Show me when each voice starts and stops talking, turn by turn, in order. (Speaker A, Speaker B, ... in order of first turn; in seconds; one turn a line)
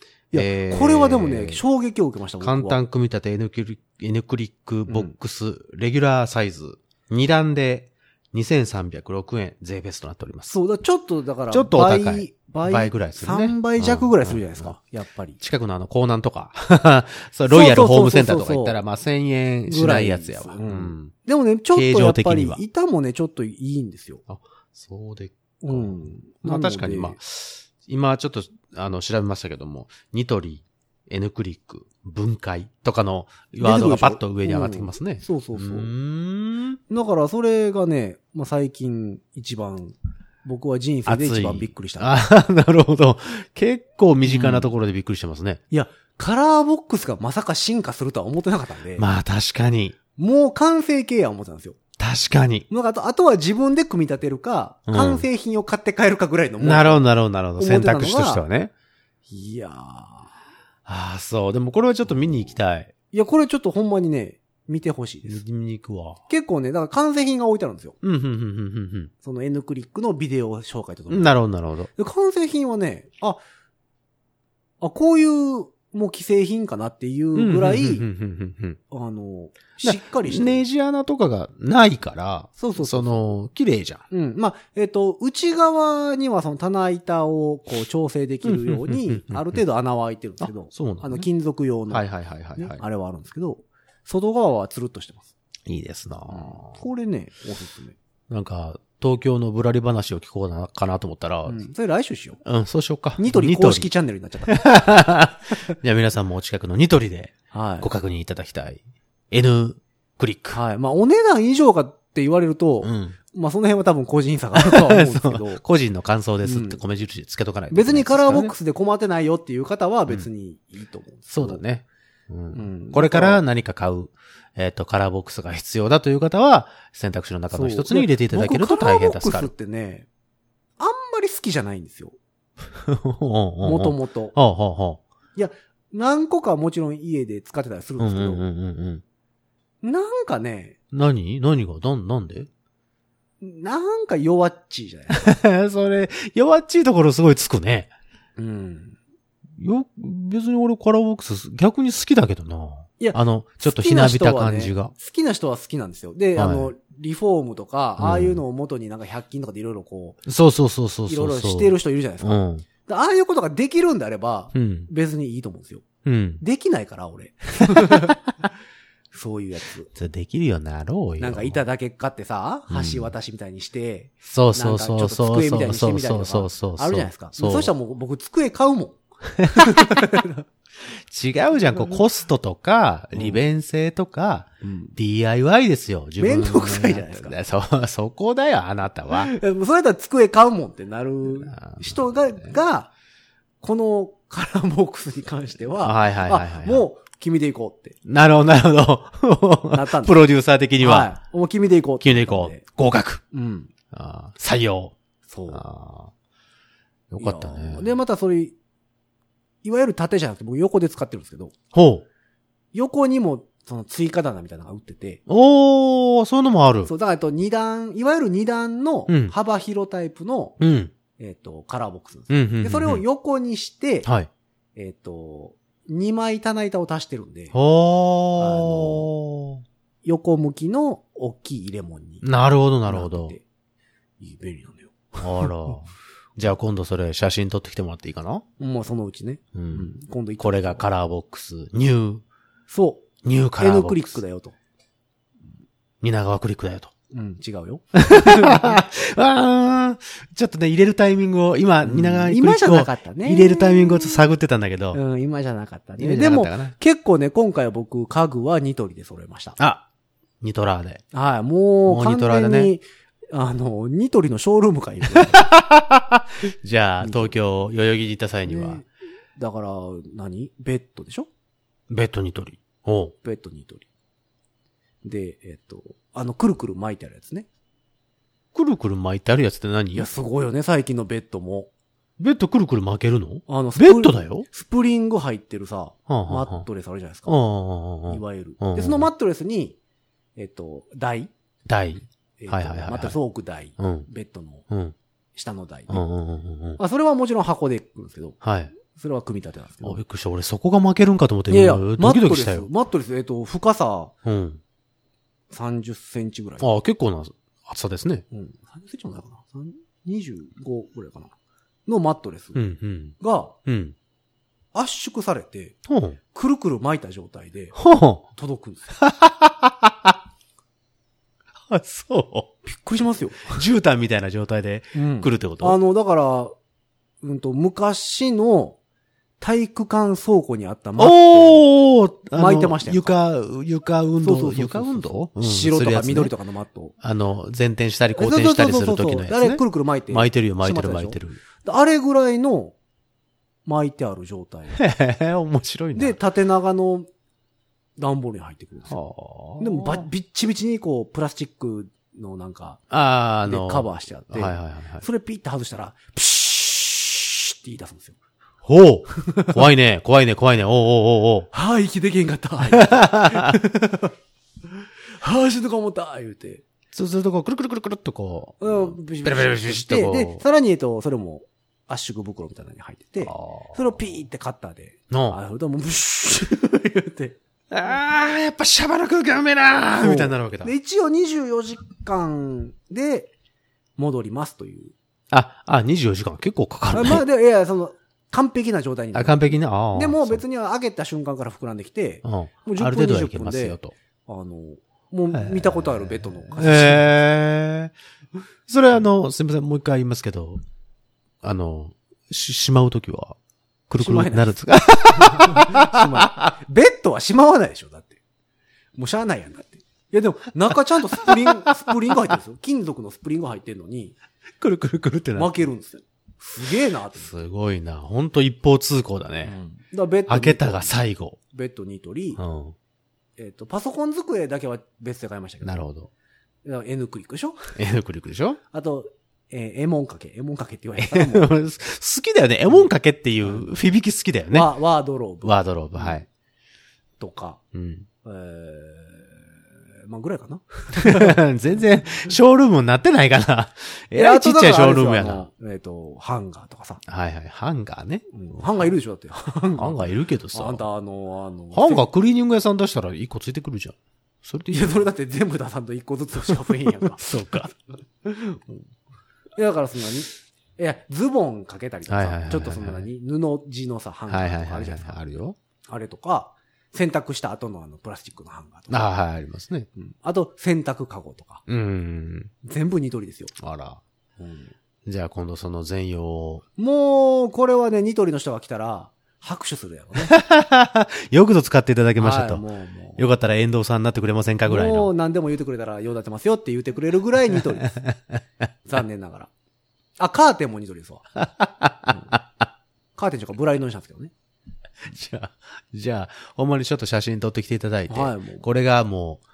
Speaker A: 0.3-2.8
Speaker B: 0.3-1.6
Speaker B: 2.4-10.5
Speaker A: 4.9-5.1
Speaker A: 10.5-15.4
Speaker B: 11.5-14.7
Speaker B: 15.4-21.1
Speaker A: 17.5-18.8
Speaker A: 19.7-24.2
Speaker B: 21.7-22.6
Speaker B: 24.3-36.8
Speaker A: 25.6-27.2
Speaker A: 33.6-35.9
Speaker A: 36.9-42.1
Speaker B: 41.1-45.6
Speaker A: 44.2-44.7
Speaker A: 45.7-49.1
Speaker B: 49.0-50.0
Speaker A: 50.2-51.8
Speaker B: 52.0-52.7
Speaker A: 52.7-57.0
Speaker B: 54.9-55.3
Speaker B: 56.6-58.7
Speaker A: 57.6-58.5
Speaker A: 59.3-60.3
Speaker B: 60.9-62.9
Speaker A: 63.1-65.4
Speaker B: 65.3-66.2
Speaker A: 66.3-68.0
Speaker B: 68.0-69.1
Speaker A: 69.2-71.3
Speaker B: 71.1-71.9
Speaker A: 72.0-73.4
Speaker A: 74.8-78.1
Speaker B: 77.3-78.8
Speaker A: 78.9-80.7
Speaker B: 79.8-84.0
Speaker A: 82.6-83.2
Speaker A: 84.1-95.3
Speaker B: 88.5-89.6
Speaker B: 90.4-91.3
Speaker B: 91.9-92.8
Speaker B: 95.7-96.8
Speaker A: 96.3-98.0
Speaker B: 98.3-101.7
Speaker A: 101.5-102.4
Speaker B: 102.4-103.9
Speaker A: 103.2-104.7
Speaker B: 104.5-110.6
Speaker A: 107.5-107.9
Speaker A: 110.5-115.6
Speaker B: 112.8-113.2
Speaker B: 114.6-118.5
Speaker A: 116.5-116.8
Speaker A: 117.7-121.6
Speaker B: 121.3-129.5
Speaker A: 122.5-123.4
Speaker A: 127.5-130.1
Speaker A: 130.8-132.2
Speaker B: 132.7-135.0
Speaker A: 133.6-134.4
Speaker A: 135.4-138.5
Speaker B: 138.0-139.0
Speaker A: 139.8-140.8
Speaker B: 140.9-142.5
Speaker A: 143.4-145.4
Speaker B: 145.1-147.9
Speaker A: 148.4-149.0
Speaker B: 149.6-154.9
Speaker A: 153.0-160.2
Speaker B: 156.4-156.7
Speaker B: 158.0-158.4
Speaker B: 160.3-162.7
Speaker A: 161.1-165.9
Speaker B: 164.5-164.9
Speaker B: 166.1-166.4
Speaker A: 166.4-168.2
Speaker B: 167.6-168.2
Speaker A: 169.1-169.9
Speaker B: 169.9-171.6
Speaker A: 171.2-180.4
Speaker B: 172.7-173.1
Speaker B: 174.2-177.7
Speaker B: 179.4-180.2
Speaker B: 180.8-189.3
Speaker A: 183.2-183.4
Speaker A: 184.6-184.9
Speaker A: 186.2-187.4
Speaker A: 189.2-192.9
Speaker B: 191.5-192.5
Speaker A: 193.6-198.0
Speaker B: 195.8-196.9
Speaker B: 198.1-201.1
Speaker A: 199.7-200.2
Speaker A: 200.8-202.7
Speaker B: 202.0-203.2
Speaker A: 203.3-203.7
Speaker B: 203.9-204.9
Speaker A: 205.3-205.6
Speaker B: 205.5-206.1
Speaker B: 207.1-207.9
Speaker A: 207.2-208.6
Speaker A: 209.6-211.5
Speaker B: 211.7-212.1
Speaker A: 212.7-215.2
Speaker B: 215.3-216.9
Speaker A: 216.8-220.6
Speaker B: 219.1-219.3
Speaker B: 220.6-220.9
Speaker A: 221.2-224.1
Speaker B: 222.3-223.1
Speaker B: 224.1-224.3
Speaker A: 224.8-227.6
Speaker B: 227.5-229.6
Speaker A: 228.4-229.1
Speaker A: 230.1-232.3
Speaker B: 232.2-233.3
Speaker A: 232.9-233.4
Speaker A: 234.2-235.5
Speaker B: 235.2-238.4
Speaker A: 238.6-240.8
Speaker B: 239.6-239.9
Speaker B: 240.4-242.2
Speaker A: 242.7-244.6
Speaker B: 243.2-244.2
Speaker B: 246.0-246.9
Speaker A: 247.1-248.8
Speaker B: 247.9-255.0
Speaker A: 251.8-254.2
Speaker A: 254.9-259.6
Speaker B: 256.0-256.8
Speaker B: 259.6-259.9
Speaker B: 260.4-261.0
Speaker A: 261.1-265.5
Speaker B: 261.9-262.7
Speaker B: 265.1-268.8
Speaker A: 267.0-267.3
Speaker A: 268.4-271.3
Speaker B: 271.9-273.1
Speaker A: 273.2-273.9
Speaker A: 275.0-277.5
Speaker B: 278.5-280.1
Speaker A: 279.9-281.7
Speaker B: 282.2-284.5
Speaker A: 283.5-287.4
Speaker B: 286.1-286.7
Speaker B: 287.3-289.1
Speaker A: 288.1-289.8
Speaker A: 290.4-291.3
Speaker B: 291.7-293.2
Speaker A: 292.4-294.7
Speaker B: 293.8-294.1
Speaker B: 294.7-295.0
Speaker A: 295.4-296.1
Speaker B: 295.9-296.8
Speaker A: 296.8-300.0
Speaker B: 298.4-298.7
Speaker B: 299.8-302.7
Speaker A: 301.5-304.1
Speaker B: 304.2-304.6
Speaker A: 305.5-306.7
Speaker B: 306.6-308.2
Speaker A: 308.3-311.3
Speaker A: 311.9-312.6
Speaker B: 312.6-313.9
Speaker A: 313.2-313.6
Speaker A: 314.7-315.8
Speaker B: 315.9-316.2
Speaker A: 316.3-317.8
Speaker B: 317.8-318.2
Speaker A: 318.3-319.0
Speaker B: 319.0-320.2
Speaker B: 321.7-322.5
Speaker A: 322.6-323.6
Speaker B: 323.5-325.8
Speaker A: 324.9-326.5
Speaker A: 327.2-328.8
Speaker A: 329.4-331.7
Speaker B: 331.0-336.3
Speaker A: 332.3-333.1
Speaker A: 334.2-336.9
Speaker B: 337.0-341.4
Speaker A: 338.1-342.8
Speaker A: 343.7-344.8
Speaker B: 344.7-346.2
Speaker A: 345.9-347.1
Speaker A: 348.0-349.0
Speaker B: 348.9-350.1
Speaker A: 349.6-352.8
Speaker B: 352.9-355.1
Speaker A: 353.5-358.2
Speaker B: 358.6-361.5
Speaker A: 359.2-359.6
Speaker A: 361.5-364.1
Speaker B: 362.7-363.6
Speaker A: 364.8-366.6
Speaker B: 366.9-370.4
Speaker A: 368.6-377.4
Speaker B: 373.2-373.8
Speaker B: 375.1-375.4
Speaker B: 377.7-380.7
Speaker A: 379.9-383.3
Speaker A: 384.0-384.9
Speaker B: 385.3-387.2
Speaker A: 386.9-397.0
Speaker B: 389.1-390.4
Speaker B: 392.2-393.9
Speaker B: 395.3-395.9
Speaker B: 396.6-397.9
Speaker B: 398.7-400.6
Speaker B: 401.4-403.4
Speaker B: 403.9-406.5
Speaker A: 404.0-404.6
Speaker A: 405.1-408.2
Speaker A: 409.0-414.2
Speaker B: 411.2-411.5
Speaker B: 414.6-415.5
Speaker A: 415.4-417.3
Speaker B: 417.2-419.6
Speaker A: 419.4-422.4
Speaker B: 420.3-421.4
Speaker B: 422.4-422.8
Speaker A: 423.4-425.9
Speaker B: 425.6-426.1
Speaker A: 426.6-427.7
Speaker B: 427.8-428.6
Speaker A: 428.7-431.5
Speaker B: 431.0-434.8
Speaker A: 434.5-436.2
Speaker B: 435.4-436.3
Speaker A: 437.2-437.6
Speaker B: 437.7-438.1
Speaker A: 438.2-439.5
Speaker A: 440.1-441.4
Speaker B: 440.9-445.5
Speaker A: 444.1-447.0
Speaker B: 447.1-448.9
Speaker A: 448.3-452.1
Speaker B: 449.8-450.9
Speaker B: 451.7-455.0
Speaker A: 454.7-457.3
Speaker B: 456.6-457.7
Speaker A: 458.2-458.8
Speaker A: 459.6-465.2
Speaker B: 462.1-463.1
Speaker B: 464.3-465.6
Speaker A: 465.9-469.1
Speaker B: 468.9-469.9
Speaker A: 470.0-471.6
Speaker B: 471.7-472.5
Speaker A: 472.6-473.5
Speaker B: 473.6-474.0
Speaker A: 474.4-474.7
Speaker B: 475.1-476.6
Speaker A: 476.8-480.4
Speaker B: 480.2-482.6
Speaker A: 482.2-483.2
Speaker B: 483.2-485.1
Speaker A: 484.7-488.0
Speaker B: 487.9-488.4
Speaker A: 488.9-489.5
Speaker A: 490.2-491.3
Speaker B: 491.6-492.4
Speaker A: 493.2-494.3
Speaker B: 495.0-499.4
Speaker A: 498.1-498.7